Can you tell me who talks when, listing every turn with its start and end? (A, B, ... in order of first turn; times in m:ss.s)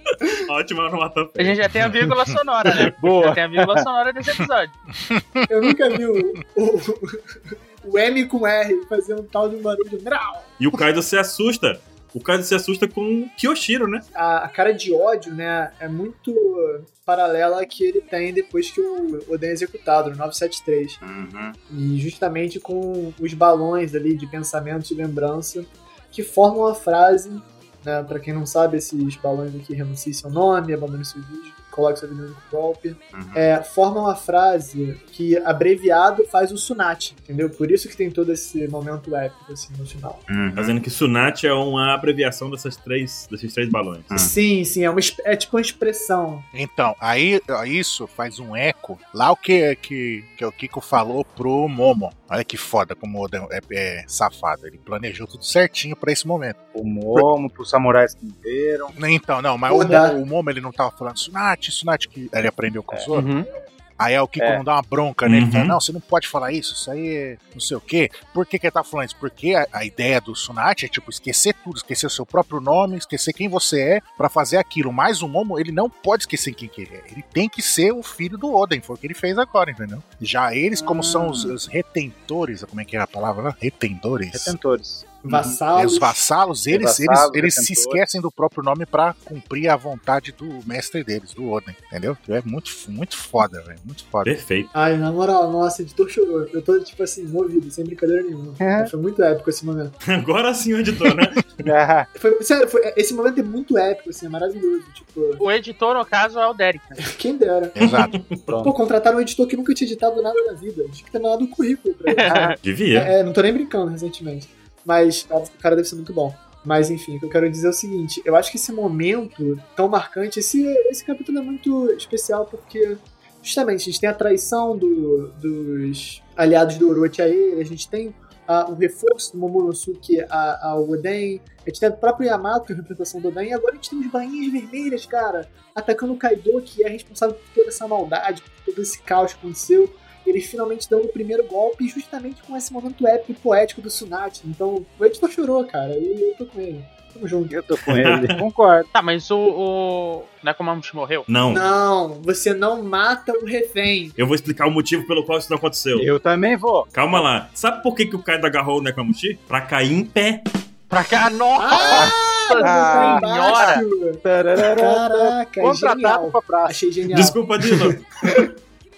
0:00.3-0:01.8 A
0:01.4-0:04.7 B
0:02.9-0:03.8 C
0:05.0-0:05.5 D
0:05.5-0:07.2 E
0:07.8-0:10.8 E
0:10.6-0:14.0 A
0:14.1-0:21.0 E
0:21.0-0:21.6 C
0:21.7-0:40.2 E
0:33.1-0:33.4 C
0:40.3-0:40.7 C
0:40.5-0:44.1 A
0:44.1-0:46.5 E
0:46.5-0:56.6 D
0:56.7-0:59.0 C
0:59.0-1:03.3 D
0:59.7-1:00.2 E
1:03.1-1:03.5 B
1:04.0-1:24.5 D
1:05.2-1:05.8 A
1:20.7-1:21.5 C
1:24.3-1:25.6 C
1:25.2-1:26.2 E
1:25.7-1:34.3 D
1:26.7-1:28.0 C
1:34.2-1:34.7 A
1:34.7-1:40.0 E
1:38.6-1:38.9 C
1:40.0-1:41.7 A
1:41.6-1:42.1 C
1:42.1-1:45.4 E
1:45.4-1:47.0 B
1:47.0-1:47.8 E
1:47.7-1:48.2 D
1:47.8-1:48.5 A
1:48.5-1:48.7 C
1:48.6-1:52.4 E
1:52.1-1:52.6 B
1:52.2-1:52.6 C
1:52.6-1:53.1 A
1:52.9-2:27.5 E
2:27.5-2:28.9 C
2:27.8-2:28.4 A
2:28.9-2:31.2 B
2:31.3-2:31.6 A
2:31.5-2:34.2 E
2:34.2-2:36.1 A
2:35.9-2:37.2 C
2:36.9-2:40.4 A
2:40.9-2:43.8 B
2:41.6-2:48.5 E
2:41.8-2:46.9 C
2:47.1-2:48.4 A